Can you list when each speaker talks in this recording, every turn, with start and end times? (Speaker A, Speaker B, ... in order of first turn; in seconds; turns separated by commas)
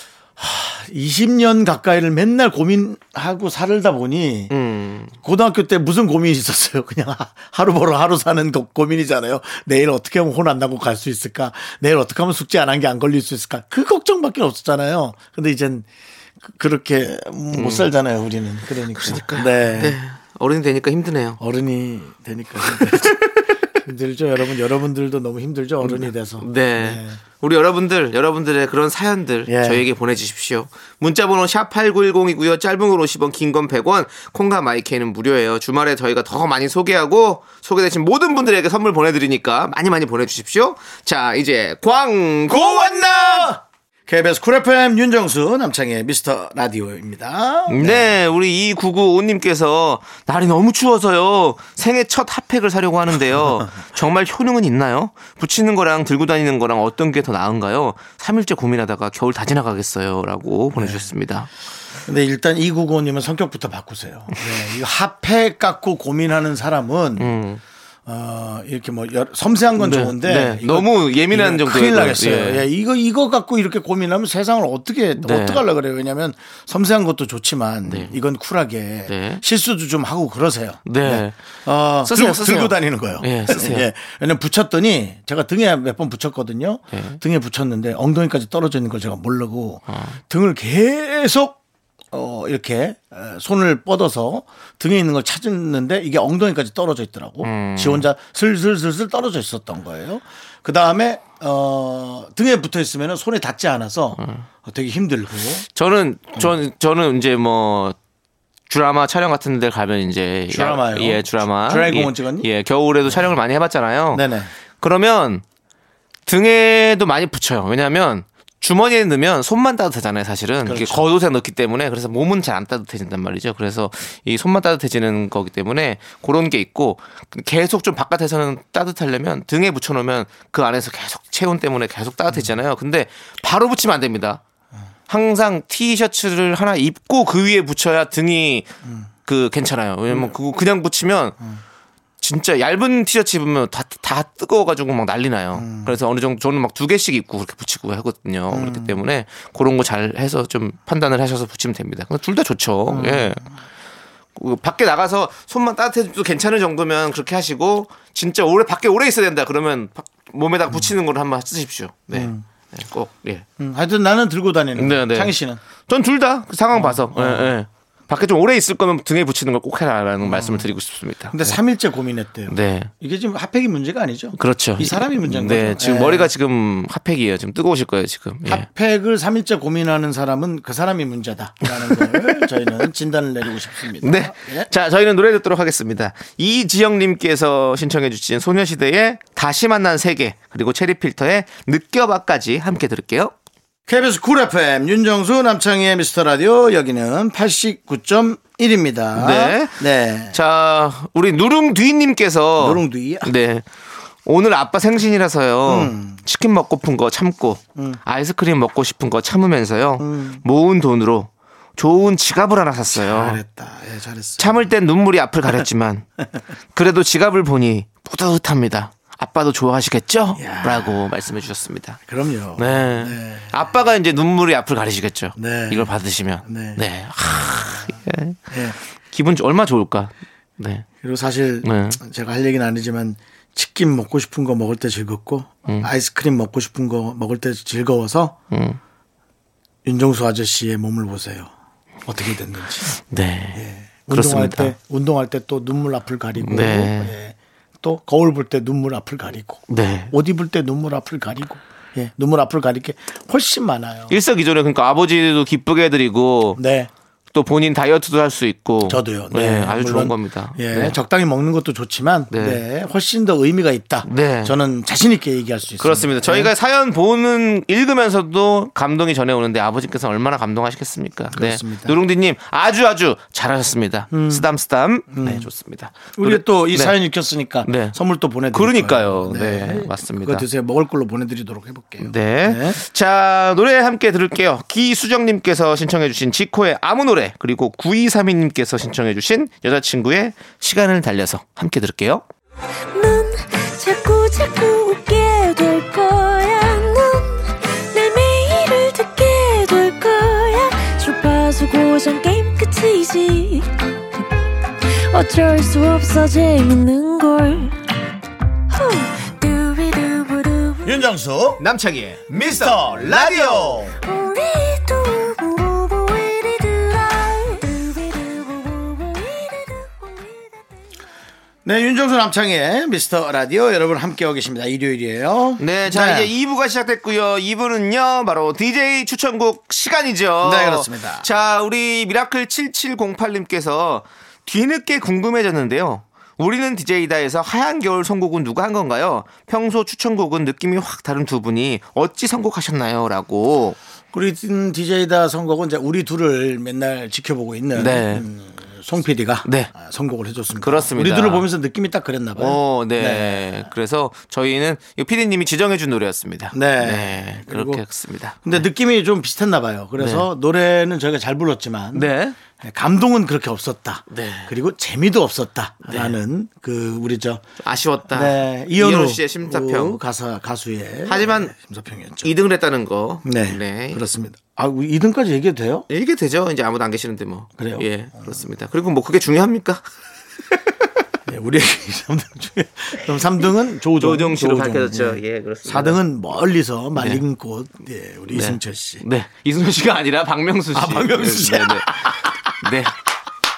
Speaker A: 0.4-4.5, Speaker B: 4.5-5.2, Speaker A: 5.2-15.9, Speaker A: 16.4-20.0, Speaker B: 17.5-17.9, Speaker B: 19.0-21.4, Speaker A: 21.4-27.2, Speaker B: 22.6-23.5, Speaker B: 25.8-43.5, Speaker A: 29.5-29.8, Speaker A: 42.5-48.1, Speaker B: 47.7-61.5, Speaker A: 60.8-61.1, Speaker A: 62.0-67.3, Speaker B: 67.2-67.6, Speaker A: 68.0-91.6, Speaker B: 69.8-72.6, Speaker B: 75.2-75.6, Speaker B: 77.8-78.2, Speaker B: 79.1-79.4, Speaker B: 80.8-81.3, Speaker B: 82.0-83.9, Speaker B: 86.9-87.2, Speaker A: 92.1-105.6, Speaker B: 97.4-98.0, Speaker B: 104.2-104.4, Speaker B: 105.7-108.0, Speaker B: 108.7-114.2, Speaker A: 110.5-112.5, Speaker A: 113.1-113.3, Speaker A: 114.1-114.5, Speaker B: 114.8-115.4, Speaker B: 116.2-134.4, Speaker A: 120.6-121.1, Speaker B: 135.1-138.7, Speaker A: 138.8-139.1, Speaker B: 139.3-141.4, Speaker B: 142.2-153.4, Speaker A: 145.5-146.0, Speaker A: 148.5-149.0, Speaker A: 152.9-153.4, Speaker B: 154.3-163.4, Speaker A: 162.1-162.4, Speaker A: 163.6-165.6, Speaker B: 164.8-165.3, Speaker B: 165.9-171.6, Speaker A: 166.7-167.5, Speaker A: 170.2-170.7, Speaker A: 171.3-176.3, Speaker B: 172.5-172.9, Speaker B: 174.4-178.7, Speaker A: 178.4-184.7, Speaker B: 181.7-182.4, Speaker B: 184.0-193.3, Speaker A: 193.9-200.3, Speaker B: 199.1-199.8, Speaker B: 200.3-203.6, Speaker A: 202.6-203.3, Speaker B: 204.2-213.4, Speaker A: 205.7-206.2, Speaker A: 207.8-208.0, Speaker A: 210.0-210.4, Speaker A: 212.9-214.7, Speaker B: 214.4-216.2, Speaker B: 216.7-222.0, Speaker A: 220.3-221.1, Speaker A: 222.1-223.8, Speaker B: 222.6-228.6, Speaker A: 225.4-225.9, Speaker A: 226.4-226.8, Speaker A: 228.5-228.8, Speaker B: 229.1-230.8, Speaker A: 231.0-238.4, Speaker B: 231.6-232.0, Speaker B: 238.5-238.8, Speaker A: 239.8-241.5, Speaker A: 242.1-242.9, Speaker B: 242.9-244.7, Speaker A: 243.5-254.2, Speaker B: 246.4-247.1, Speaker B: 249.7-250.1, Speaker B: 254.1-256.6, Speaker A: 256.6-256.9, Speaker B: 257.3-261.0, Speaker A: 258.8-266.5, Speaker B: 262.3-262.6, Speaker B: 264.0-264.6, Speaker B: 265.8-276.9, Speaker A: 271.3-272.0, Speaker A: 274.1-274.4, Speaker A: 275.1-275.5, Speaker A: 276.1-282.8, Speaker B: 277.6-277.9, Speaker B: 278.5-280.4, Speaker B: 282.0-292.2, Speaker C: 292.9-303.7, Speaker C: 304.8-307.8, Speaker C: 308.7-311.0, Speaker A: 310.8-311.6, Speaker B: 311.6-313.9, Speaker A: 312.3-313.9, Speaker C: 314.0-320.6, Speaker A: 321.6-326.3, Speaker B: 325.6-343.8, Speaker A: 330.4-331.3, Speaker A: 344.1-353.4, Speaker B: 347.7-348.2, Speaker B: 349.4-349.7, Speaker B: 350.6-351.4, Speaker B: 352.4-358.6, Speaker A: 356.5-357.8, Speaker A: 358.4-367.4, Speaker B: 360.0-360.2, Speaker B: 361.9-362.4, Speaker B: 364.1-364.5, Speaker B: 365.9-366.1, Speaker B: 367.6-370.0, Speaker A: 368.1-372.3, Speaker B: 371.1-371.5, Speaker B: 372.2-374.0, Speaker A: 373.2-375.9, Speaker B: 375.9-379.8, Speaker A: 377.6-378.3, Speaker A: 381.2-389.0, Speaker B: 384.0-386.0, Speaker B: 386.9-387.2, Speaker B: 388.3-392.9, Speaker A: 390.7-392.4